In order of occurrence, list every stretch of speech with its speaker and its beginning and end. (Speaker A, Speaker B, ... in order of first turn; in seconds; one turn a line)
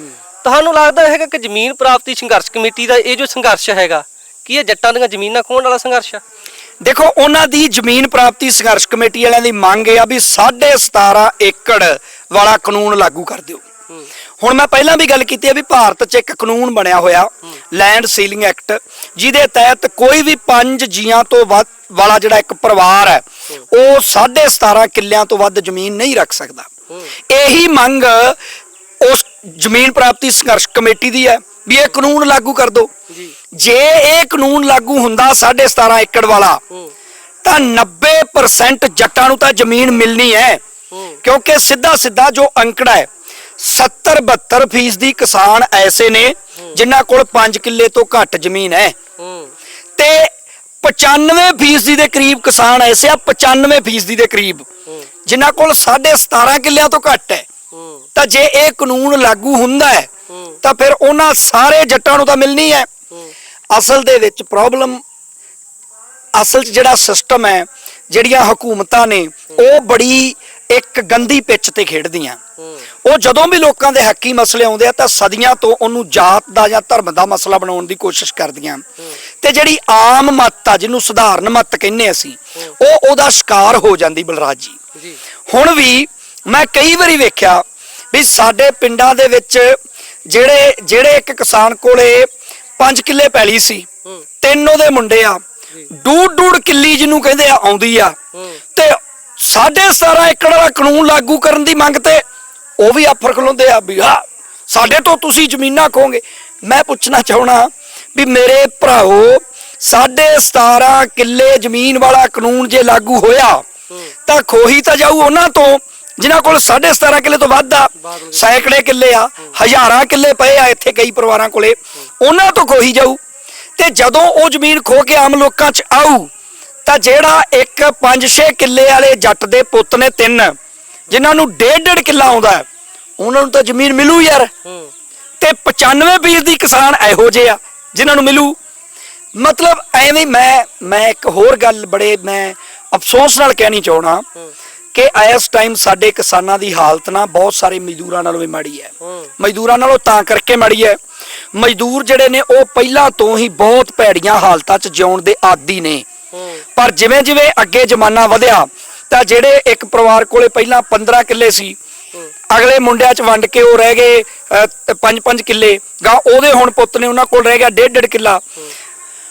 Speaker A: 0.4-6.2
Speaker B: 6.8-13.6
Speaker B: 14.4-26.7
Speaker B: 27.3-28.4
Speaker B: 29.0-32.9
Speaker A: 33.1-33.3
Speaker B: 33.6-36.6
Speaker B: 37.4-40.6
Speaker A: 40.9-41.2
Speaker B: 41.2-43.1
Speaker B: 43.6-48.9
Speaker A: 49.2-49.5
Speaker B: 50.0-50.3
Speaker B: 50.8-54.6
Speaker B: 55.2-57.5
Speaker A: 57.7-58.1
Speaker B: 58.1-60.1
Speaker A: 60.3-60.6
Speaker B: 60.6-62.9
Speaker B: 63.7-65.0
Speaker B: 66.3-72.4
Speaker A: 72.6-72.8
Speaker B: 73.0-78.8
Speaker B: 79.4-84.8
Speaker A: 84.9-85.2
Speaker B: 85.5-89.8
Speaker B: 90.3-92.3
Speaker B: 92.8-93.9
Speaker B: 94.4-98.2
Speaker A: 98.3-98.6
Speaker B: 98.8-102.2
Speaker B: 102.8-113.6
Speaker B: 114.3-123.2
Speaker A: 118.0-118.7
Speaker B: 123.8-126.3
Speaker B: 126.8-130.5
Speaker B: 131.1-132.6
Speaker B: 133.2-134.5
Speaker A: 134.6-134.9
Speaker B: 135.4-138.6
Speaker B: 139.4-144.2
Speaker B: 144.9-151.0
Speaker A: 149.0-149.3
Speaker B: 151.5-156.0
Speaker A: 156.3-156.6
Speaker B: 156.8-161.8
Speaker B: 162.5-168.4